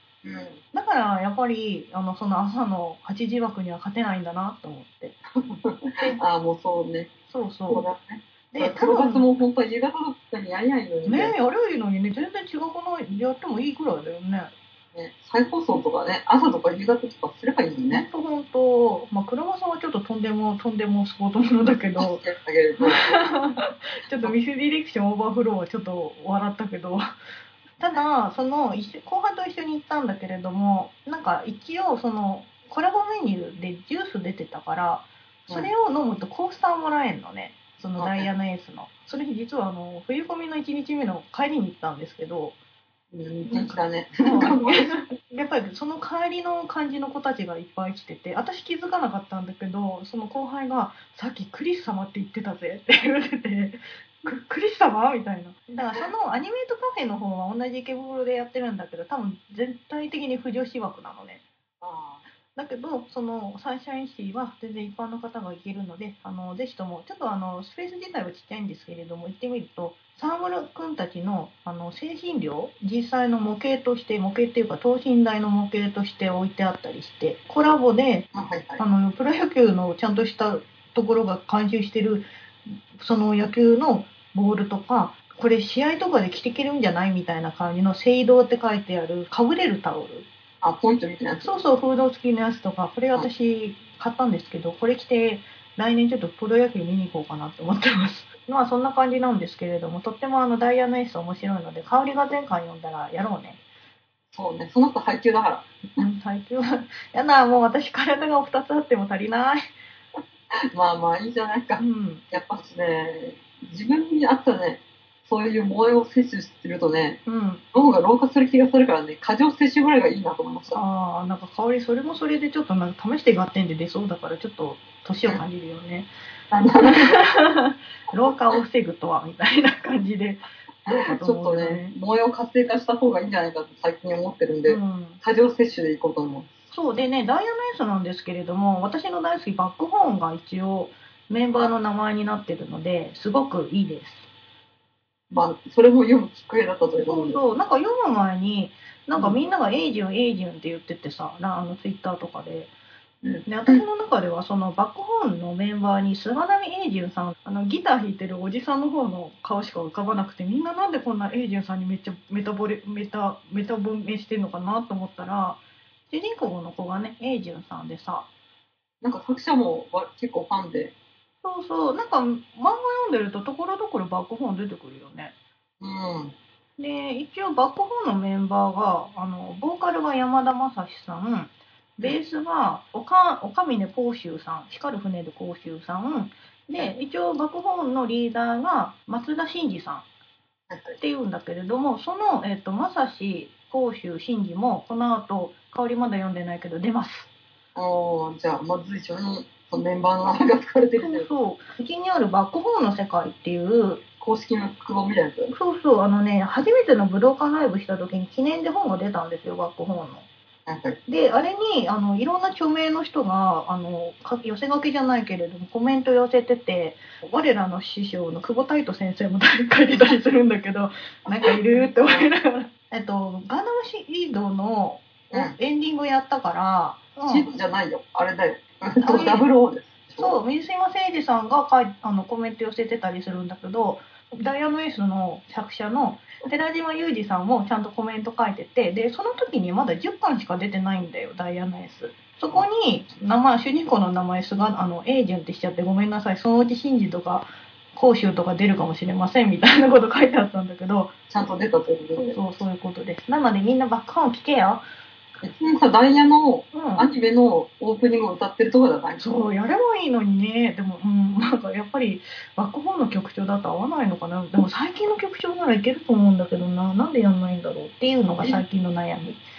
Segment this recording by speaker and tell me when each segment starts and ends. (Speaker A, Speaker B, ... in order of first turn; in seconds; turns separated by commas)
Speaker A: 0.2-0.6, Speaker B: 0.7-5.2, Speaker A: 5.3-7.1, Speaker B: 7.3-7.9, Speaker A: 7.7-11.3, Speaker B: 8.5-9.3, Speaker B: 11.1-14.5, Speaker A: 14.9-18.1, Speaker B: 17.9-22.2, Speaker A: 22.0-23.2, Speaker B: 22.8-27.0, Speaker B: 27.8-42.5, Speaker A: 38.0-38.3, Speaker A: 43.1-45.1, Speaker B: 43.5-61.4, Speaker A: 61.8-62.2, Speaker B: 62.5-78.3, Speaker A: 78.3-78.8, Speaker B: 78.8-82.3, Speaker B: 82.9-90.3, Speaker A: 90.6-91.5, Speaker B: 91.4-103.6, Speaker A: 104.3-105.7, Speaker B: 106.0-109.7, Speaker A: 110.7-117.2, Speaker B: 111.8-112.2, Speaker B: 117.2-117.6, Speaker A: 117.7-120.8, Speaker B: 120.7-126.1, Speaker A: 126.5-127.2, Speaker B: 126.8-131.9, Speaker A: 130.9-136.5, Speaker B: 134.7-135.2, Speaker B: 136.7-144.3, Speaker A: 145.3-147.4, Speaker B: 147.1-152.7, Speaker A: 153.2-153.8, Speaker B: 153.4-168.3, Speaker A: 169.0-170.9, Speaker B: 171.4-175.3, Speaker A: 175.8-176.3, Speaker B: 176.8-190.0, Speaker A: 190.7-191.0, Speaker B: 191.0-197.3, Speaker A: 197.7-201.3, Speaker B: 201.0-204.0, Speaker A: 204.2-205.5, Speaker B: 205.5-210.2, Speaker A: 210.7-211.0, Speaker B: 211.1-227.5, Speaker A: 221.5-222.3, Speaker A: 225.3-225.6, Speaker A: 227.3-230.4, Speaker B: 229.0-229.5, Speaker B: 230.2-251.1, Speaker A: 251.3-252.4, Speaker B: 252.2-254.8, Speaker A: 255.4-259.2, Speaker B: 256.7-257.1, Speaker B: 259.2-269.4, Speaker A: 268.4-268.6